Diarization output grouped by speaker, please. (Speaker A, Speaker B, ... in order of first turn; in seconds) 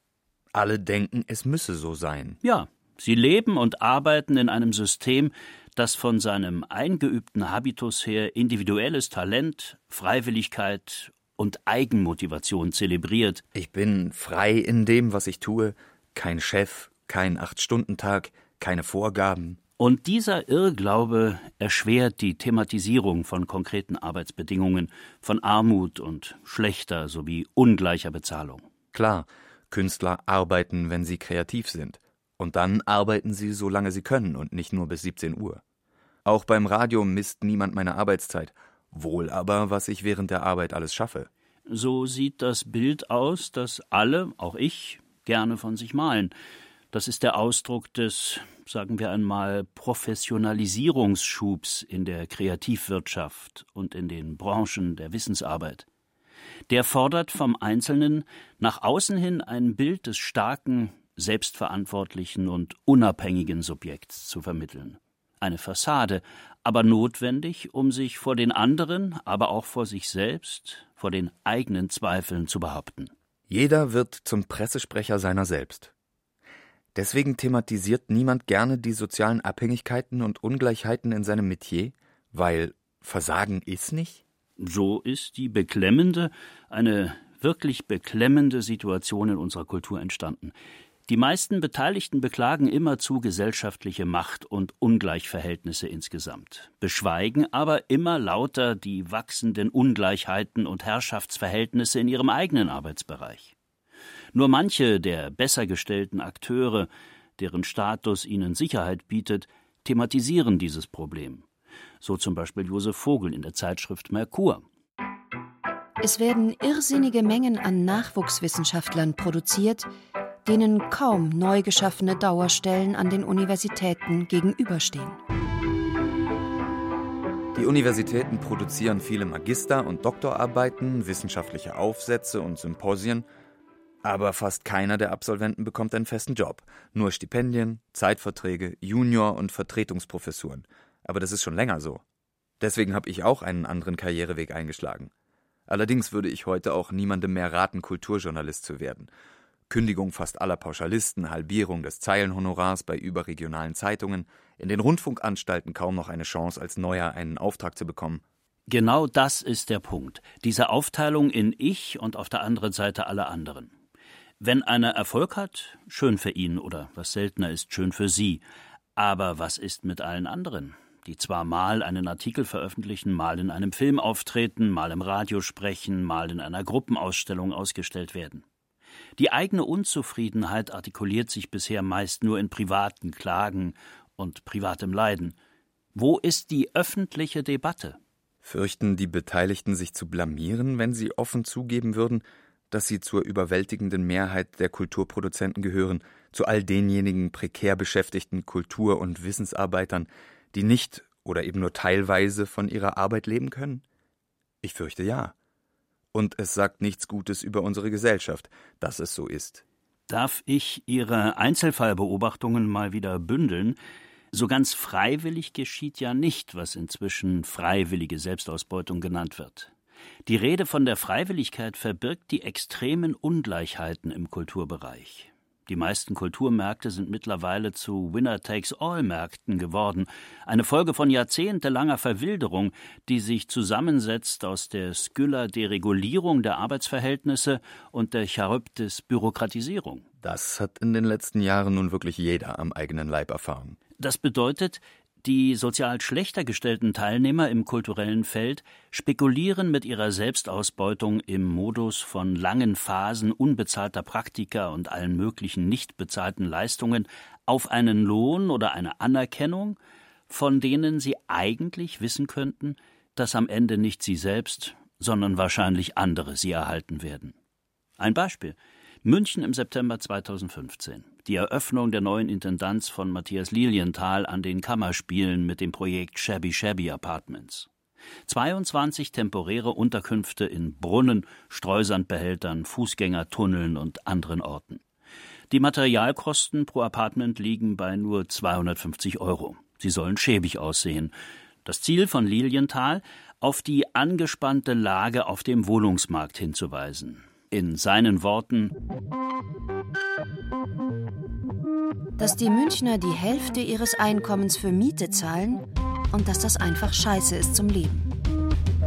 Speaker A: 0.5-2.4, 13.5-19.6, 28.9-35.6, 36.2-41.3, 73.5-75.9, 76.9-84.2, 127.5-133.3, 134.0-142.0, 142.6-145.1, 145.7-149.1, 149.7-158.2, 188.4-203.8, 204.6-205.3, 206.1-209.6, 240.2-243.8
Speaker B: 2.4-13.4, 19.8-28.6, 41.7-46.3, 46.9-55.9, 56.7-73.1, 84.6-90.5, 91.1-103.5, 104.3-111.4, 112.0-114.6, 158.7-163.7, 164.4-168.4, 169.0-178.4, 179.2-185.3, 185.9-188.0, 210.1-213.8, 214.3-219.7, 220.2-240.1, 244.0-259.8, 260.3-267.3, 268.0-277.7, 278.3-284.8, 285.5-291.1, 291.6-298.7
Speaker C: 116.0-119.9, 120.4-125.2, 302.2-308.1